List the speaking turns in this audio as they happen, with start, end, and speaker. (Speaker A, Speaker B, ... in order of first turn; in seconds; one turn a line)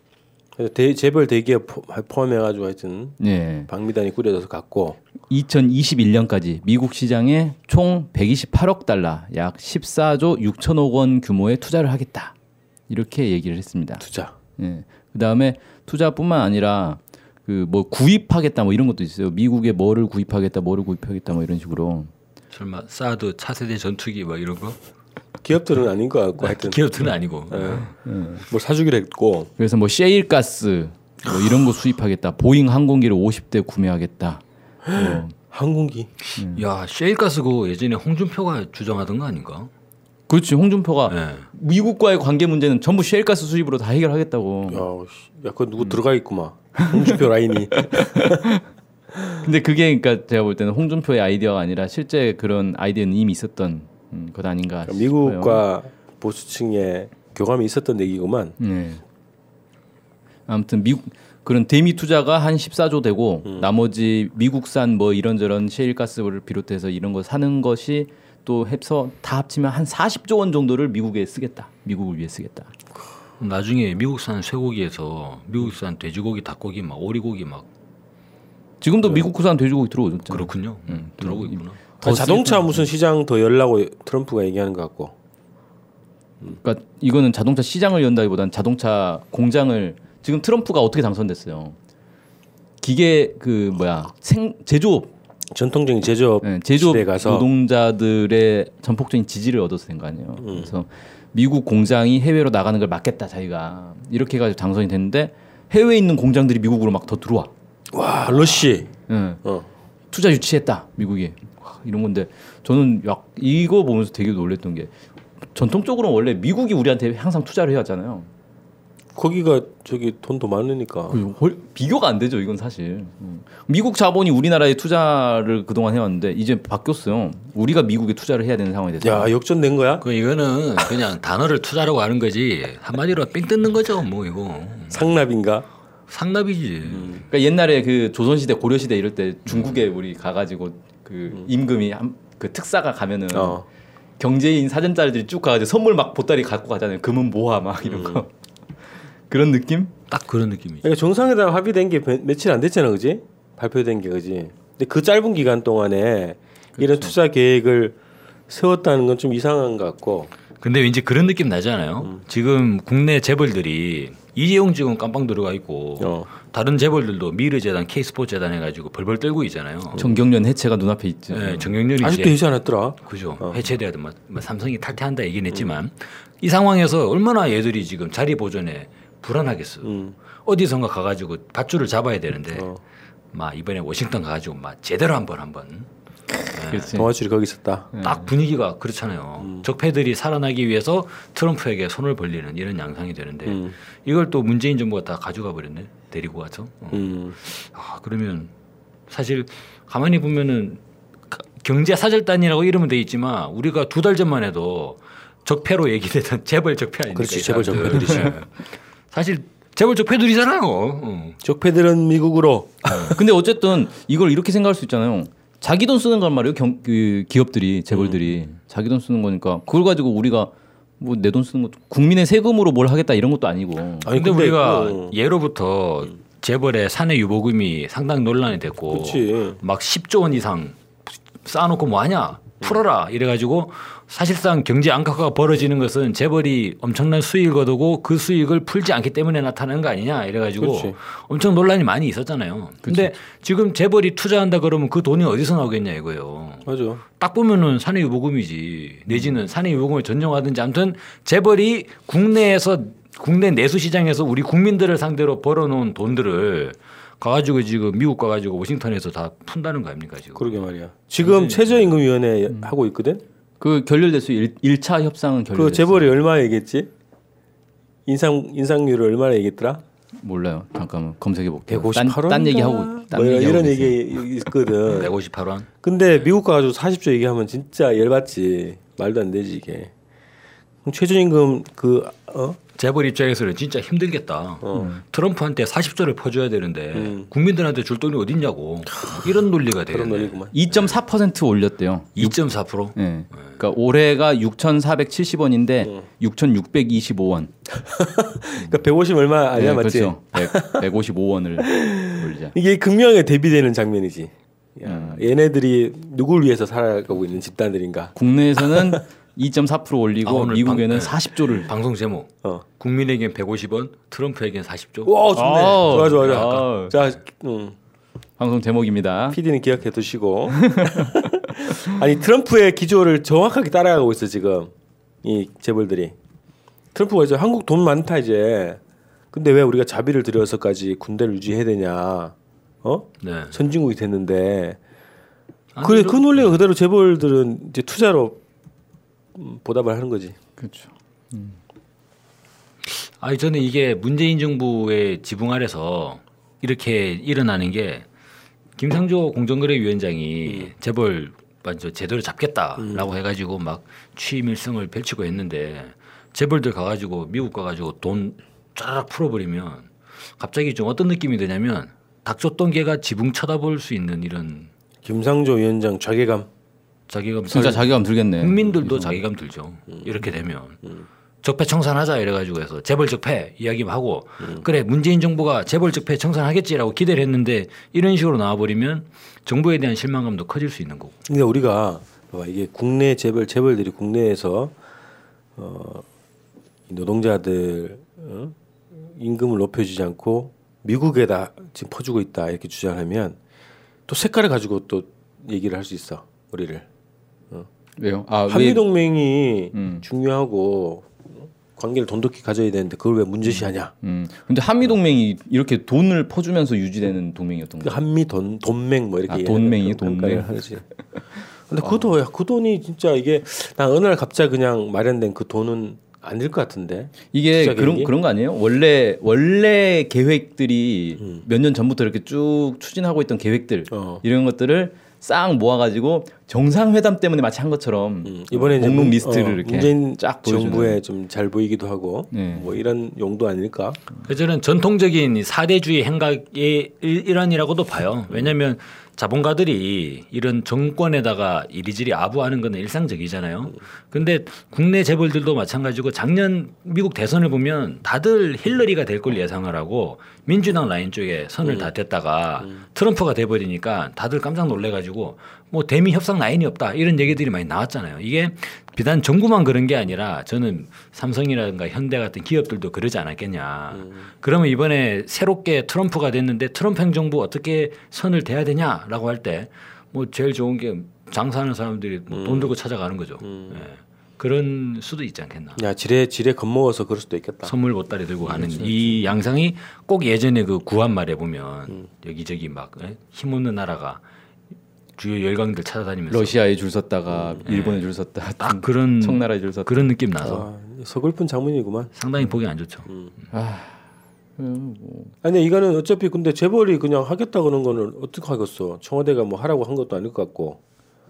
Speaker A: 0.6-5.0
Speaker B: 3.2-3.7
Speaker B: 5.3-12.3
Speaker B: 12.9-14.1
Speaker A: 14.0-14.3
Speaker B: 14.6-22.1
Speaker C: 22.5-24.8
Speaker A: 25.4-26.8
Speaker C: 26.4-27.9
Speaker A: 27.5-27.9
Speaker B: 27.7-28.5
Speaker A: 28.5-29.5
Speaker B: 29.6-34.4
Speaker A: 34.9-36.1
Speaker B: 34.9-35.3
Speaker C: 36.3-39.7
Speaker B: 36.4-36.6
Speaker B: 40.3-44.9
Speaker C: 41.1-41.5
Speaker A: 44.7-48.5
Speaker B: 46.8-47.2
Speaker B: 47.8-48.6
Speaker B: 49.4-55.7
Speaker A: 54.9-58.6
Speaker B: 58.6-59.0
Speaker B: 60.5-72.7
Speaker A: 63.5-63.7
Speaker C: 73.4-77.7
Speaker B: 78.8-82.9
Speaker A: 79.0-79.3
Speaker C: 80.3-81.9
Speaker A: 82.0-85.1
Speaker B: 86.5-91.8
Speaker B: 92.8-95.1
Speaker A: 95.5-97.5
Speaker B: 96.4-107.5
Speaker A: 100.4-100.8
Speaker A: 107.9-108.9
Speaker C: 108.3-108.7
Speaker B: 109.1-109.4
Speaker B: 110.1-114.9
Speaker B: 115.5-118.3
Speaker A: 119.2-121.2
Speaker B: 121.1-129.3
Speaker A: 129.0-130.1
Speaker C: 130.0-135.2
Speaker A: 134.9-135.7
Speaker C: 136.1-137.3
Speaker A: 136.9-137.2
Speaker B: 137.3-143.7
Speaker C: 139.5-139.7
Speaker A: 143.3-143.6
Speaker B: 144.2-148.3
Speaker A: 147.8-148.2
Speaker B: 149.3-149.9
Speaker C: 150.1-151.0
Speaker A: 150.8-158.0
Speaker B: 156.8-157.1
Speaker A: 158.5-160.3
Speaker C: 160.6-170.0
Speaker A: 166.0-166.3
Speaker A: 169.9-170.2
Speaker B: 170.0-171.8
Speaker C: 171.3-172.4
Speaker A: 172.0-173.7
Speaker C: 173.0-182.7
Speaker A: 179.8-180.2
Speaker A: 182.5-182.8
Speaker C: 183.3-185.9
Speaker B: 186.3-187.1
Speaker C: 186.5-187.0
Speaker A: 186.9-187.9
Speaker B: 187.9-188.3
Speaker C: 188.0-198.5
Speaker A: 189.4-189.7
Speaker A: 193.4-193.8
Speaker A: 196.9-197.4
Speaker C: 199.1-211.4
Speaker A: 207.1-208.3
Speaker A: 211.4-213.2
Speaker C: 212.9-213.2
Speaker B: 213.1-224.1
Speaker A: 217.9-218.3
Speaker A: 224.0-225.2
Speaker C: 224.1-262.0
Speaker A: 228.9-229.6
Speaker A: 240.6-241.0
Speaker B: 242.8-243.1
Speaker A: 246.7-247.0
Speaker A: 260.4-263.2
Speaker B: 263.6-266.2
Speaker A: 265.5-266.9
Speaker A: 268.1-269.8
Speaker B: 270.2-274.1
Speaker A: 271.7-275.1
Speaker C: 274.9-276.4
Speaker A: 275.8-279.9
Speaker A: 280.9-282.6
Speaker C: 282.8-291.0
Speaker A: 284.6-285.0
Speaker B: 284.7-285.0
Speaker A: 286.9-287.3
Speaker A: 288.9-289.2
Speaker A: 289.9-290.6
Speaker B: 290.5-292.4
Speaker C: 292.2-292.9
Speaker B: 292.9-297.5
Speaker A: 297.8-300.9
Speaker C: 298.6-298.8
Speaker B: 299.5-302.6
Speaker A: 301.6-309.0
Speaker B: 304.9-305.3
Speaker B: 308.1-311.7
Speaker C: 310.2-315.1
Speaker A: 315.1-317.8
Speaker B: 315.3-317.0
Speaker C: 315.9-316.7
Speaker B: 318.4-319.4
Speaker A: 319.3-324.7
Speaker B: 320.6-321.0
Speaker A: 325.2-326.1
Speaker A: 326.9-328.8
Speaker A: 329.3-334.8
Speaker C: 333.2-333.6
Speaker C: 335.8-336.7
Speaker A: 335.8-338.4
Speaker A: 339.4-340.4
Speaker B: 340.6-341.6
Speaker C: 342.9-348.1
Speaker C: 348.8-364.7
Speaker A: 352.8-353.1
Speaker A: 365.0-366.5
Speaker C: 367.1-370.9
Speaker B: 367.5-369.2
Speaker A: 367.5-367.8
Speaker C: 371.4-381.1
Speaker A: 381.3-384.7
Speaker A: 385.6-386.0
Speaker A: 386.9-393.4
Speaker A: 394.1-396.9
Speaker B: 398.0-398.9
Speaker A: 398.5-403.9
Speaker B: 399.7-400.0
Speaker B: 403.4-408.0
Speaker A: 407.8-410.8
Speaker B: 409.3-410.5
Speaker A: 411.7-418.1
Speaker B: 411.8-412.1
Speaker B: 417.3-431.0
Speaker A: 423.9-424.2
Speaker A: 428.2-434.0
Speaker B: 432.3-432.8
Speaker C: 434.2-475.8
Speaker A: 451.6-451.9
Speaker A: 463.9-464.2
Speaker A: 472.3-472.8
Speaker A: 473.4-473.8
Speaker A: 475.8-477.7
Speaker C: 477.6-484.2
Speaker B: 478.5-479.1
Speaker C: 485.2-486.6
Speaker B: 486.3-490.0
Speaker A: 487.3-487.6
Speaker C: 487.6-490.7
Speaker A: 490.4-492.1
Speaker C: 492.1-493.1
Speaker A: 493.1-493.3
Speaker B: 493.5-494.0
Speaker B: 494.6-495.4
Speaker A: 495.4-500.8